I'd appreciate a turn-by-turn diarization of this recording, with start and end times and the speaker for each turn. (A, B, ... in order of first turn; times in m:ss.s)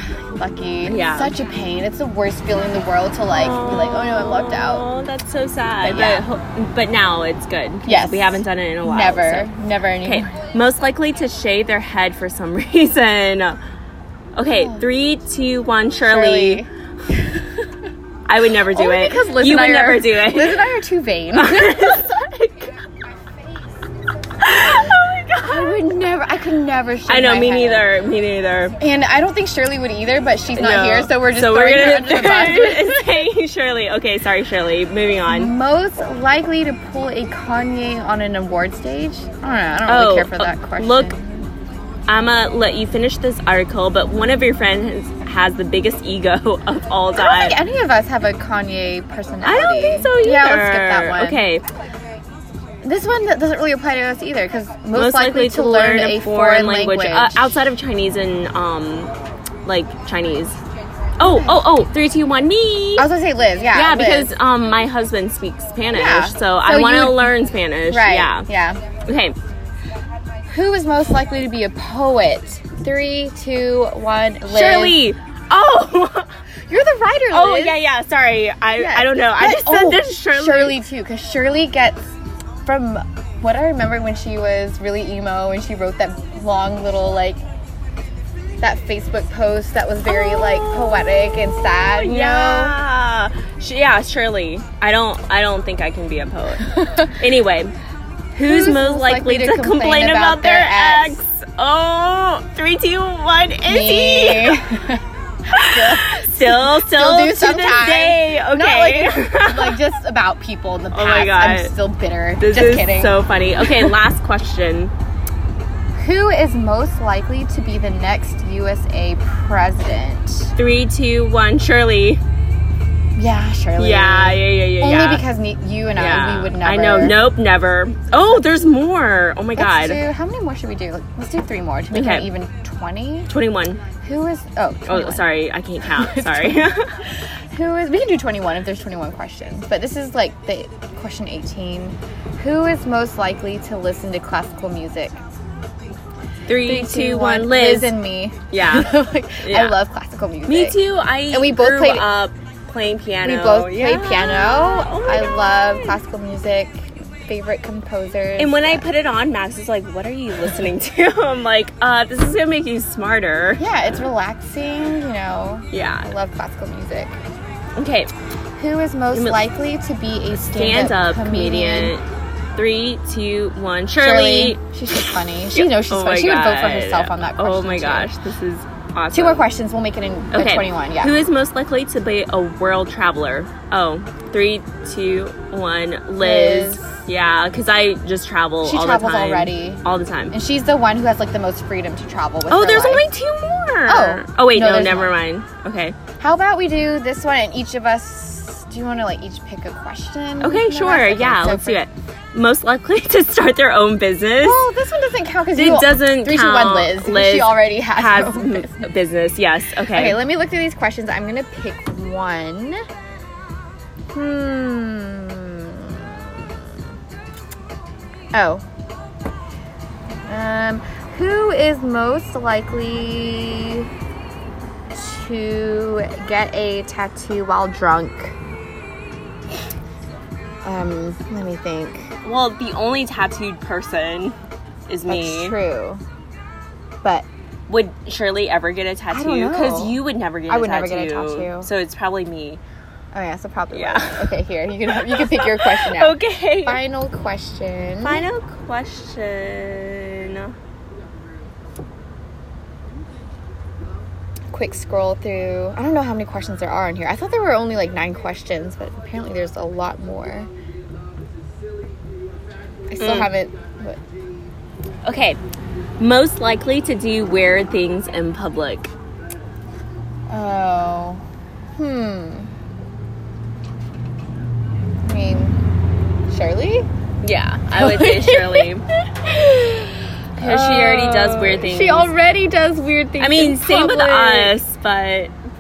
0:00.4-0:04.8 A
0:00.9-0:01.3 B
0:03.3-0:09.5 B
0:05.8-0:06.2 A
0:07.8-0:10.3 A
0:10.0-0:13.6 B
0:14.4-0:16.6 B
0:14.5-0:14.8 A
0:16.0-0:16.7 A
0:18.3-0:20.7 B
0:18.7-0:22.2 A
0:21.4-0:22.7 B
0:24.4-0:25.8 B
0:25.4-0:27.9 A
0:27.1-0:28.8 B
0:28.8-0:33.2 A
0:30.6-0:35.5 B
0:35.3-0:41.5 A
0:39.9-0:41.1 B
0:42.1-0:47.6 B
0:47.2-0:51.4 A
0:49.4-0:51.6 B
0:52.8-0:57.6 A
0:55.0-0:59.1 B
0:59.6-1:00.6 B
1:01.2-1:03.1 B
1:03.0-1:04.3 A
1:03.7-1:08.5 B
1:05.9-1:07.3 A
1:07.9-1:08.8 A
1:09.1-1:09.4 B
1:10.5-1:15.0 A
1:14.5-1:16.3 B
1:16.7-1:17.8 A
1:17.3-1:20.8 B
1:18.8-1:22.1 A
1:22.6-1:27.4 A
1:28.6-1:32.8 A
1:30.3-1:30.7 B
1:32.0-1:37.7 B
1:36.8-1:37.1 A
1:38.4-1:44.6 B
1:38.4-1:41.2 A
1:43.7-1:45.0 A
1:45.5-1:49.8 B
1:45.6-1:54.0 A
1:50.9-1:51.7 B
1:52.4-1:54.9 B
1:56.0-2:00.5 A
2:00.6-2:02.2 B
2:03.2-2:07.2 A
2:03.8-2:05.3 B
2:06.0-2:10.0 B
2:09.6-2:13.3 A
2:11.9-2:12.3 B
2:13.3-2:13.8 B
2:14.0-2:15.3 A
2:14.9-2:16.9 B
2:15.8-2:16.7 A
2:17.5-2:25.2 A
2:26.5-2:27.9 B
2:26.6-2:30.8 A
2:28.5-2:29.8 B
2:30.5-2:36.0 B
2:31.3-2:32.0 A
2:33.2-2:38.8 A
2:38.4-2:43.6 B
2:43.6-2:47.2 A
2:45.7-2:46.1 B
2:47.8-2:48.1 B
2:48.6-2:51.9 A
2:49.1-2:49.4 B
2:50.5-2:52.0 B
2:52.6-2:59.5 B
2:53.9-2:58.1 A
2:59.1-3:01.1 A
3:00.3-3:10.4 B
3:06.2-3:07.0 A
3:08.6-3:13.1 A
3:12.5-3:16.0 B
3:13.9-3:15.2 A
3:16.2-3:21.8 A
3:20.4-3:24.6 B
3:24.4-3:28.9 A
3:25.6-3:30.2 B
3:29.9-3:32.8 A
3:34.1-3:36.3 A
3:38.3-3:38.6 A
3:40.3-3:43.9 A
3:44.9-3:48.4 A
3:50.6-3:52.1 A
3:52.2-3:54.4 B
3:54.9-3:55.6 B
3:55.1-3:56.0 A
3:57.7-4:02.6 B
3:59.1-4:01.7 A
4:03.1-4:08.2 A
4:03.7-4:06.8 B
4:08.0-4:10.6 B
4:14.5-4:20.5 A
4:22.9-4:24.0 A
4:23.0-4:23.3 B
4:25.0-4:25.4 B
4:26.0-4:28.9 B
4:30.3-4:31.2 A
4:31.8-4:32.5 A
4:35.1-4:35.6 A
4:36.3-4:36.8 A
4:37.2-4:38.8 B
4:37.8-4:38.7 A
4:39.2-4:44.6 A
4:40.4-4:42.1 B
4:43.2-4:45.3 B